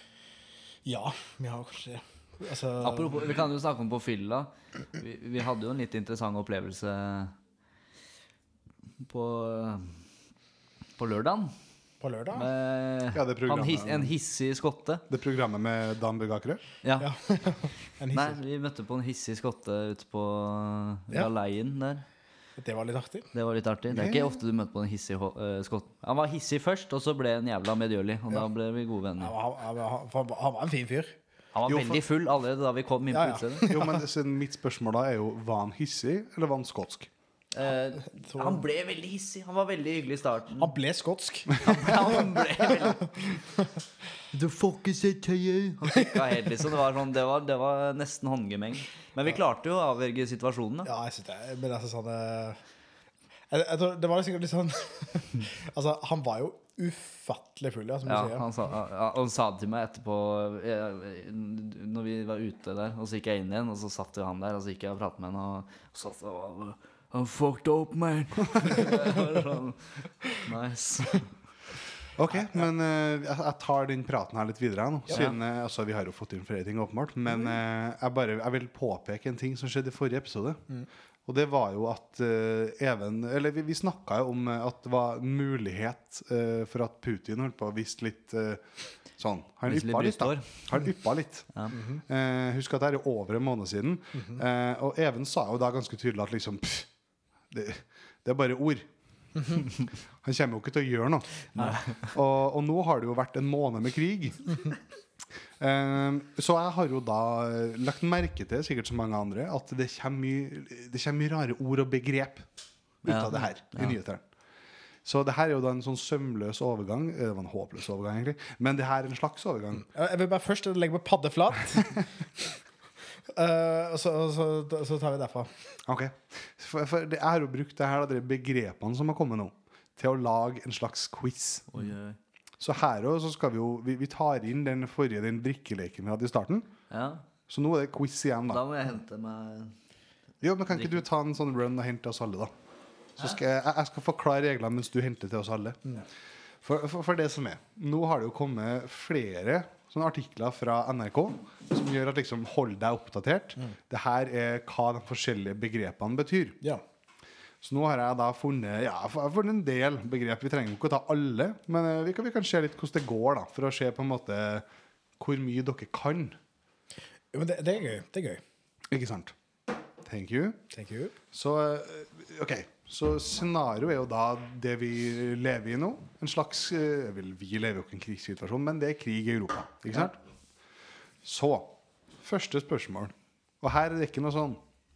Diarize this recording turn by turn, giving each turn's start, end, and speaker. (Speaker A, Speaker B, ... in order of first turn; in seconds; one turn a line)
Speaker A: 0.8-3.4
Speaker B: 2.8-7.3
Speaker B: 9.0-10.0
Speaker B: 11.0-11.5
Speaker A: 12.0-12.5
Speaker B: 12.3-15.0
Speaker C: 13.1-14.1
Speaker C: 15.1-16.6
Speaker B: 16.8-17.1
Speaker A: 17.0-18.4
Speaker B: 18.1-22.0
Speaker A: 22.6-23.3
Speaker B: 23.3-29.3
Speaker C: 23.9-24.4
Speaker A: 29.2-31.2
Speaker B: 31.5-33.8
Speaker C: 31.7-32.0
Speaker A: 33.1-34.0
Speaker C: 33.7-37.1
Speaker B: 37.5-40.7
Speaker A: 38.2-38.6
Speaker A: 40.6-41.6
Speaker C: 41.5-41.8
Speaker B: 41.6-43.4
Speaker B: 44.3-50.9
Speaker A: 50.9-52.6
Speaker A: 53.5-58.5
Speaker B: 58.1-71.3
Speaker C: 72.2-80.6
Speaker B: 75.1-75.4
Speaker C: 81.3-88.6
Speaker C: 89.2-91.5
Speaker B: 89.7-90.6
Speaker A: 91.7-92.0
Speaker C: 92.1-96.9
Speaker C: 97.5-98.9
Speaker C: 100.2-104.7
Speaker B: 101.5-102.1
Speaker C: 105.6-112.5
Speaker C: 113.0-114.2
Speaker B: 113.0-114.0
Speaker C: 115.0-119.9
Speaker A: 119.9-122.1
Speaker A: 123.3-125.5
Speaker C: 125.9-131.7
Speaker B: 131.7-132.2
Speaker C: 132.6-136.7
Speaker B: 136.9-137.2
Speaker C: 137.5-138.6
Speaker B: 138.5-139.7
Speaker C: 140.4-142.5
Speaker B: 140.7-141.0
Speaker C: 143.2-146.0
Speaker C: 146.6-156.6
Speaker C: 157.6-164.6
Speaker C: 165.2-166.4
Speaker A: 167.3-168.4
Speaker C: 168.9-169.3
Speaker C: 170.0-170.6
Speaker A: 170.7-171.1
Speaker C: 171.3-180.2
Speaker C: 181.2-184.6